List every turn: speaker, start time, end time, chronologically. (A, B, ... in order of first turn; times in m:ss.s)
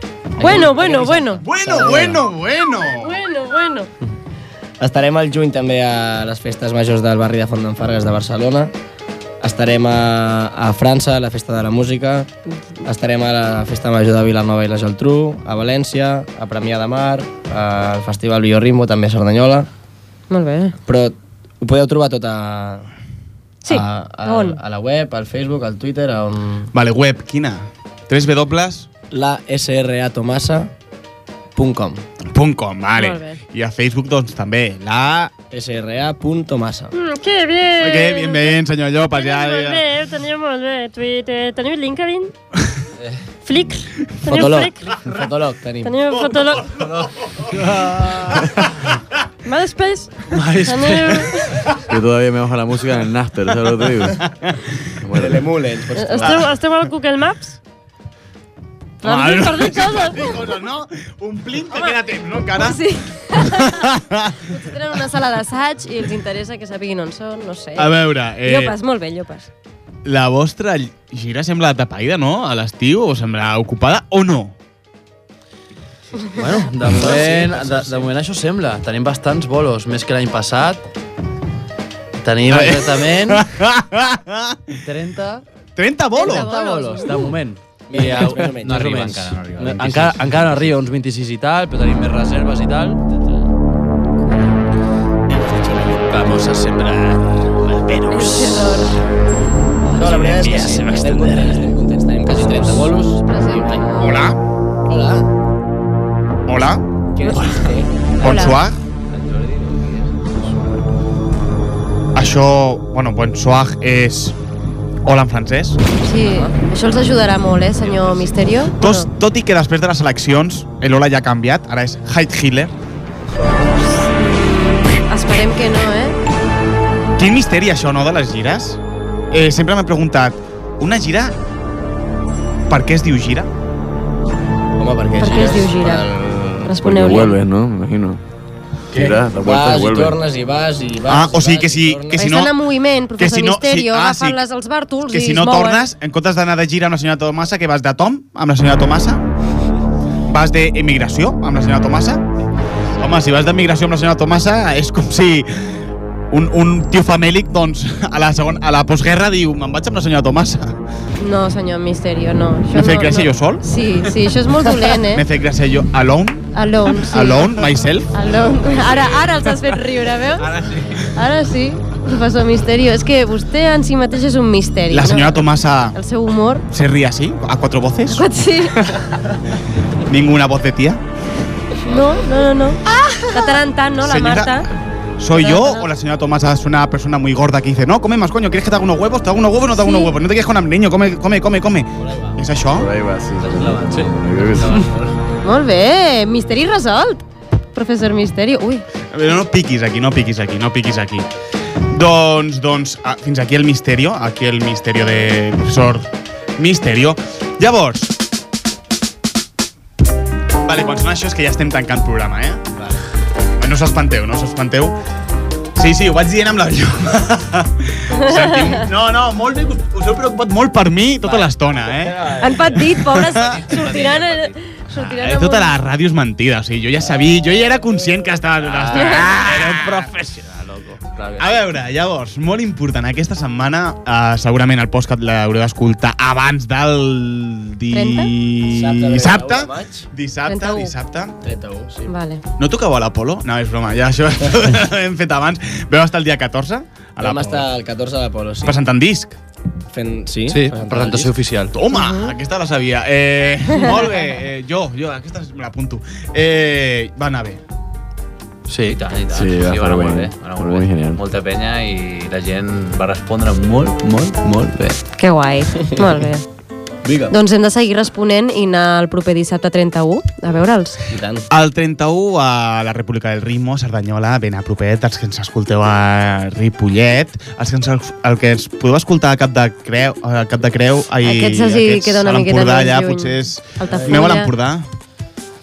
0:00.4-0:02.2 A
0:00.4-0:01.4 B
0:01.4-0:03.2 C
0:02.9-0:03.9 B
0:04.8-0:08.7 A
0:09.4-0:12.3 A
0:12.8-0:19.7 A
0:20.3-0:20.8 B
0:20.8-0:22.9 A
0:23.6-0:24.6 B
0:23.7-0:26.7 A
0:26.7-0:28.9 C
0:29.1-0:30.7 A
0:31.6-0:32.0 A
0:32.3-0:35.3 C
0:33.0-0:33.4 B
0:35.5-0:36.9 A
0:36.9-0:38.5 D
0:37.8-0:39.8 C
0:39.1-0:42.3 D
0:43.4-0:45.0 D
0:44.2-0:46.0 A
0:45.8-0:46.8 D
0:46.3-0:47.4 C
0:47.7-0:48.3 A
0:49.4-0:51.6 D
0:50.3-0:51.3 E
0:51.9-0:54.3 F
0:55.0-0:55.5 F
0:55.1-0:56.5 A
0:56.2-0:57.6 D
0:59.0-1:00.3 B
0:59.0-1:02.8 C
1:02.5-1:03.9 B
1:03.4-1:04.4 C
1:04.4-1:09.5 B
1:07.8-1:08.8 C
1:10.0-1:14.5 C
1:16.3-1:20.8 E
1:16.8-1:18.1 A
1:22.2-1:23.5 E
1:22.5-1:24.8 C
1:24.8-1:25.4 E
1:25.8-1:26.5 C
1:26.1-1:27.3 B
1:26.2-1:33.0 E
1:27.9-1:28.8 A
1:28.1-1:30.8 G
1:35.3-1:38.9 E
1:38.1-1:39.0 B
1:39.9-1:41.7 E
1:39.9-1:44.0 A
1:42.2-1:43.2 E
1:43.2-1:44.3 B
1:44.0-1:44.4 C
1:44.9-1:45.2 A
1:46.5-1:46.8 C
1:47.1-1:48.5 A
1:48.2-1:48.8 C
1:48.2-1:48.6 B
1:52.1-1:54.4 C
1:55.0-1:55.8 C
1:56.0-1:59.1 B
1:57.8-1:58.3 E
1:58.8-2:02.7 C
2:04.1-2:06.2 B
2:07.2-2:08.8 C
2:09.3-2:11.3 C
2:12.7-2:13.5 C
2:14.8-2:16.7 A
2:15.2-2:16.0 B
2:16.6-2:17.4 B
2:16.8-2:18.2 F
2:18.9-2:22.2 A
2:18.9-2:20.2 F
2:21.0-2:22.6 C
2:22.2-2:25.9 B
2:23.2-2:24.4 C
2:25.1-2:29.2 C
2:30.3-2:32.2 C
2:33.0-2:35.8 C
2:36.3-2:40.8 C
2:41.2-2:45.2 B
2:42.7-2:43.6 C
2:45.1-2:48.2 C
2:46.5-2:47.5 B
2:48.1-2:50.5 B
2:48.7-2:49.2 C
2:51.1-2:56.6 B
2:54.9-2:56.0 C
2:56.7-2:58.3 C
2:58.1-2:58.8 B
3:00.1-3:01.0 C
3:01.8-3:04.7 B
3:04.0-3:04.6 C
3:05.2-3:12.9 C
3:05.3-3:05.8 B
3:09.8-3:10.1 B
3:12.7-3:14.8 F
3:13.4-3:15.0 E
3:15.4-3:17.2 B
3:17.7-3:18.8 B
3:19.1-3:21.2 C
3:21.9-3:28.1 C
3:30.6-3:32.6 C
3:33.6-3:35.0 C
3:35.8-3:43.6 C
3:42.4-3:45.7 B
3:43.5-3:44.5 G
3:44.9-3:50.0 C
3:48.6-3:51.5 E
3:48.9-3:49.2 B
3:51.4-4:01.4 C
3:57.9-3:58.3 B
3:58.6-4:00.1 A
4:00.5-4:00.9 B
4:01.4-4:02.1 A
4:02.1-4:02.4 B
4:02.6-4:07.6 C
4:07.2-4:08.8 A
4:08.6-4:09.3 C
4:09.9-4:11.3 A
4:10.5-4:11.7 E
4:11.7-4:17.6 C
4:11.9-4:12.3 B
4:18.7-4:19.0 E
4:18.8-4:23.9 G
4:19.3-4:21.2 F
4:23.8-4:25.0 E
4:25.2-4:26.4 B
4:27.0-4:27.3 A
4:27.3-4:31.0 B
4:31.1-4:31.4 A
4:31.5-4:44.9 C
4:41.2-4:44.5 B
4:43.8-4:44.3 A